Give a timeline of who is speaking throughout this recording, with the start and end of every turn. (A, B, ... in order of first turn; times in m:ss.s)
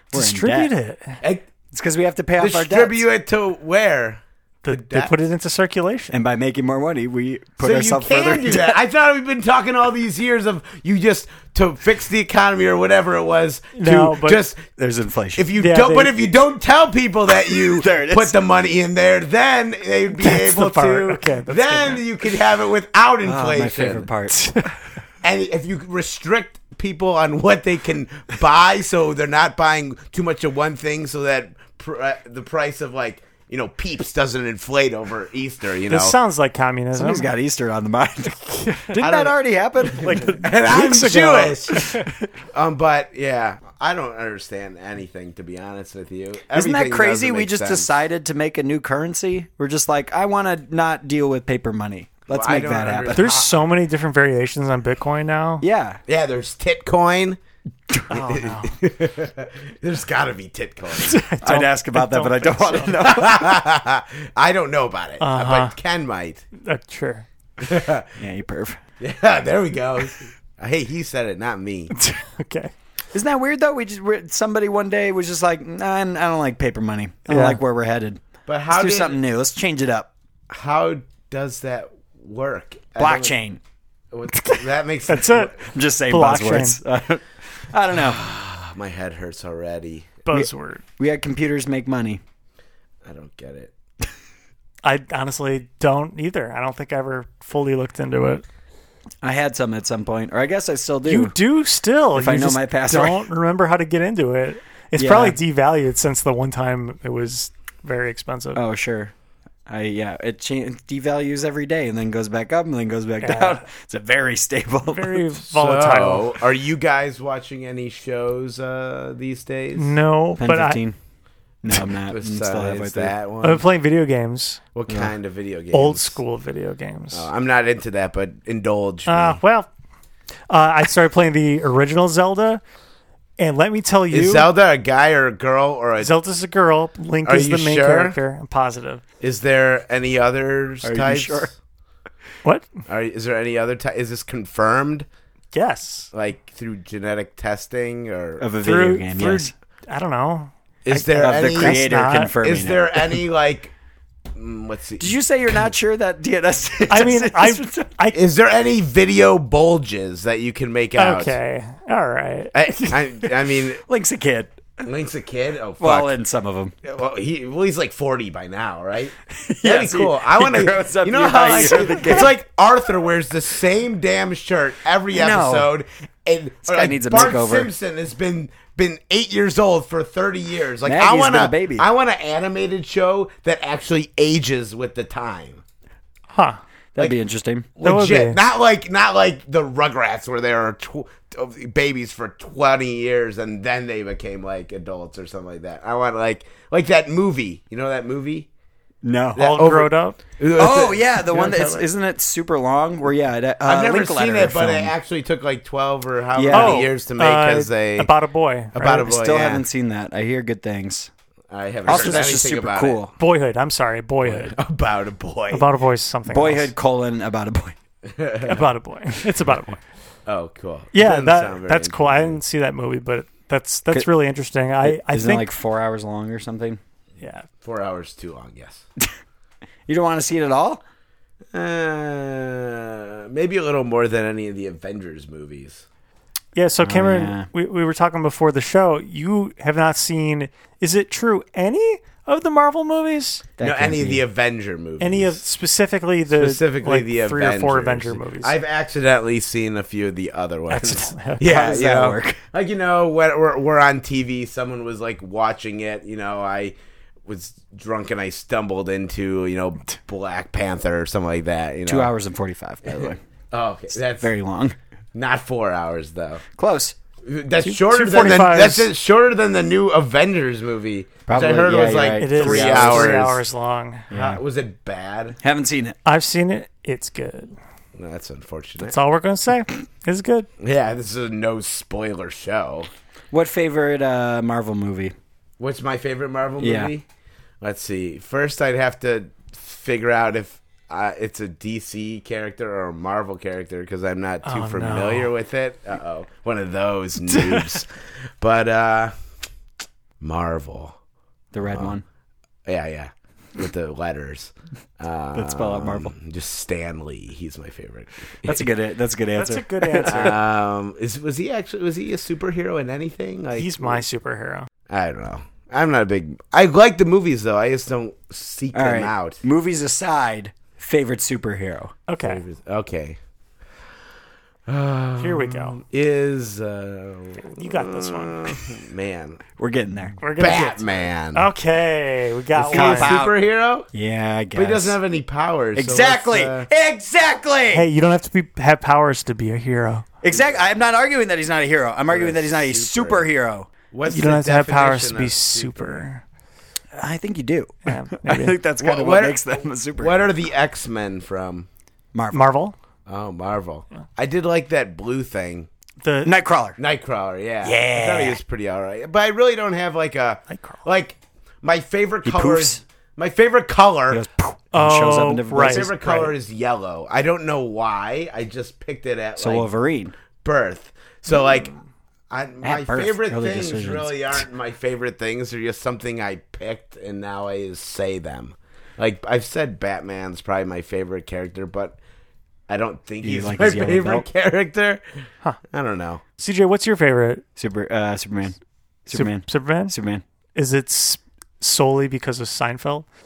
0:00.1-0:00.7 A
0:00.1-0:01.2 B
0:01.7-0:03.0 A
0:02.4-0:05.1 C
0:04.6-0:06.1 B
0:06.1-0:08.8 A
0:07.6-0:14.6 C
0:13.7-0:14.4 B
0:14.8-0:15.4 A
0:15.4-0:24.1 C
0:15.6-0:16.1 B
0:17.6-0:18.4 A
0:20.2-0:22.0 B
0:23.2-0:24.4 A
0:24.3-0:24.7 B
0:25.2-0:36.2 C
0:35.9-0:37.3 B
0:36.9-0:40.4 A
0:38.6-0:39.1 B
0:39.0-0:39.3 C
0:39.9-0:42.1 B
0:40.0-0:41.9 C
0:42.5-0:47.9 C
0:46.5-0:53.3 A
0:52.3-0:53.6 C
0:53.1-0:55.6 B
0:55.6-0:56.0 A
0:56.1-0:57.4 C
0:58.1-0:58.7 B
0:58.1-1:01.2 C
1:01.0-1:03.0 B
1:01.4-1:03.5 A
1:03.0-1:06.4 C
1:05.2-1:05.7 B
1:06.6-1:07.2 B
1:07.6-1:08.1 C
1:08.2-1:08.8 A
1:09.0-1:11.9 C
1:11.9-1:12.7 B
1:13.1-1:20.1 A
1:17.3-1:17.6 B
1:18.5-1:19.2 C
1:20.5-1:23.3 C
1:23.0-1:23.6 A
1:24.1-1:25.6 C
1:24.3-1:26.8 B
1:25.7-1:28.2 A
1:27.9-1:30.2 C
1:30.3-1:30.8 B
1:30.3-1:32.2 A
1:33.0-1:33.7 C
1:34.8-1:38.4 B
1:39.2-1:41.3 A
1:41.0-1:48.6 B
1:42.1-1:43.2 A
1:45.0-1:45.4 A
1:48.5-1:49.1 A
1:49.7-1:55.2 A
1:53.2-1:53.6 B
1:54.9-1:56.3 B
1:55.5-1:59.9 C
1:59.8-2:00.8 B
2:00.4-2:01.0 A
2:01.6-2:03.1 A
2:01.8-2:03.6 C
2:03.4-2:04.6 B
2:04.7-2:06.2 C
2:04.9-2:05.1 A
2:05.7-2:07.3 B
2:07.1-2:09.4 C
2:09.1-2:09.7 B
2:10.5-2:12.6 B
2:13.4-2:14.5 B
2:14.1-2:16.1 C
2:16.0-2:19.0 B
2:17.2-2:18.2 C
2:19.2-2:21.5 C
2:20.8-2:21.5 A
2:22.4-2:22.8 B
2:22.9-2:25.0 C
2:25.5-2:26.1 B
2:26.1-2:28.4 C
2:28.4-2:29.5 A
2:28.6-2:30.5 B
2:30.8-2:31.9 C
2:31.0-2:32.3 B
2:31.1-2:33.2 A
2:32.4-2:33.7 C
2:34.3-2:35.1 C
2:35.0-2:37.9 A
2:36.9-2:38.2 B
2:38.1-2:41.4 C
2:41.0-2:43.0 B
2:42.5-2:43.8 C
2:43.9-2:44.6 A
2:44.8-2:46.1 C
2:45.8-2:46.7 A
2:46.8-3:05.6 C
2:49.4-2:52.3 A
2:55.1-2:55.7 A
2:56.6-2:57.7 A
3:00.8-3:01.8 A
3:06.3-3:06.6 B
3:06.9-3:07.7 A
3:07.8-3:18.5 C
3:07.8-3:08.4 B
3:19.0-3:19.6 A
3:19.4-3:21.9 C
3:19.4-3:20.2 B
3:20.6-3:24.9 A
3:23.6-3:28.1 C
3:26.4-3:26.8 A
3:26.5-3:29.1 B
3:28.7-3:29.6 C
3:28.8-3:31.1 A
3:31.5-3:33.0 C
3:31.8-3:33.1 A
3:31.9-3:32.3 B
3:33.2-3:34.6 B
3:34.2-3:35.6 C
3:35.5-3:36.7 B
3:36.3-3:37.8 A
3:38.0-3:38.6 C
3:38.4-3:39.8 B
3:40.3-3:42.4 C
3:40.9-3:45.5 B
3:44.8-3:46.8 A
3:47.2-3:47.5 B
3:47.6-3:48.8 C
3:49.9-3:50.8 A
3:51.5-3:55.8 C
3:56.5-4:03.5 B
3:56.8-3:57.5 A
4:03.6-4:04.2 A
4:03.6-4:05.4 C
4:05.0-4:08.5 B
4:06.3-4:16.7 C
4:10.7-4:11.4 B
4:11.4-4:12.4 A
4:17.2-4:22.1 C
4:21.9-4:23.2 A
4:22.8-4:24.3 C
4:24.1-4:24.8 A
4:25.1-4:26.4 C
4:26.6-4:26.9 A
4:27.2-4:33.4 C
4:27.6-4:28.9 B
4:31.3-4:33.2 A
4:32.2-4:34.0 B
4:34.1-4:34.4 A
4:34.1-4:35.4 C
4:35.4-4:35.9 A
4:36.0-4:37.5 B
4:38.0-4:39.0 C
4:38.8-4:40.5 B
4:40.6-4:42.9 C
4:43.3-4:45.1 A
4:45.6-4:47.0 C
4:46.6-4:46.9 A
4:47.6-4:57.9 C
4:54.4-4:55.3 B
4:58.4-4:59.1 C
5:00.2-5:01.0 C
5:01.5-5:02.0 A
5:02.6-5:08.7 C
5:05.3-5:06.1 A
5:08.4-5:10.3 A
5:09.4-5:10.4 B
5:10.0-5:14.0 C
5:13.6-5:14.7 B
5:14.9-5:19.4 C
5:18.7-5:21.9 A
5:22.1-5:22.4 B
5:22.2-5:23.2 C
5:24.7-5:29.4 C
5:25.2-5:25.8 B
5:27.6-5:28.6 B
5:29.6-5:30.2 A
5:30.2-5:33.2 B
5:30.4-5:31.5 C
5:32.6-5:33.9 C
5:32.7-5:33.4 A
5:33.9-5:35.0 A
5:34.5-5:36.7 C
5:35.7-5:37.9 A
5:37.7-5:40.1 B
5:40.2-5:43.7 A
5:40.3-5:40.6 C
5:42.1-5:43.3 C
5:43.9-5:46.0 C
5:44.0-5:46.2 B
5:46.9-5:50.3 A
5:47.8-5:48.6 B
5:48.8-5:51.7 C
5:52.1-5:52.5 A
5:52.3-5:52.7 B
5:53.1-5:55.7 C
5:56.0-5:56.3 B
5:56.2-5:56.8 A
5:56.8-6:04.2 C
5:57.6-5:58.4 A
6:02.2-6:02.8 A
6:04.1-6:06.3 A
6:04.7-6:05.9 B
6:05.6-6:09.7 C
6:09.4-6:10.1 A
6:10.4-6:11.7 C
6:12.3-6:22.0 C
6:12.6-6:14.4 A
6:22.7-6:25.0 C
6:23.2-6:24.2 A
6:25.7-6:26.2 C
6:26.4-6:27.4 B
6:27.6-6:30.2 A
6:29.1-6:29.9 B
6:30.5-6:33.0 B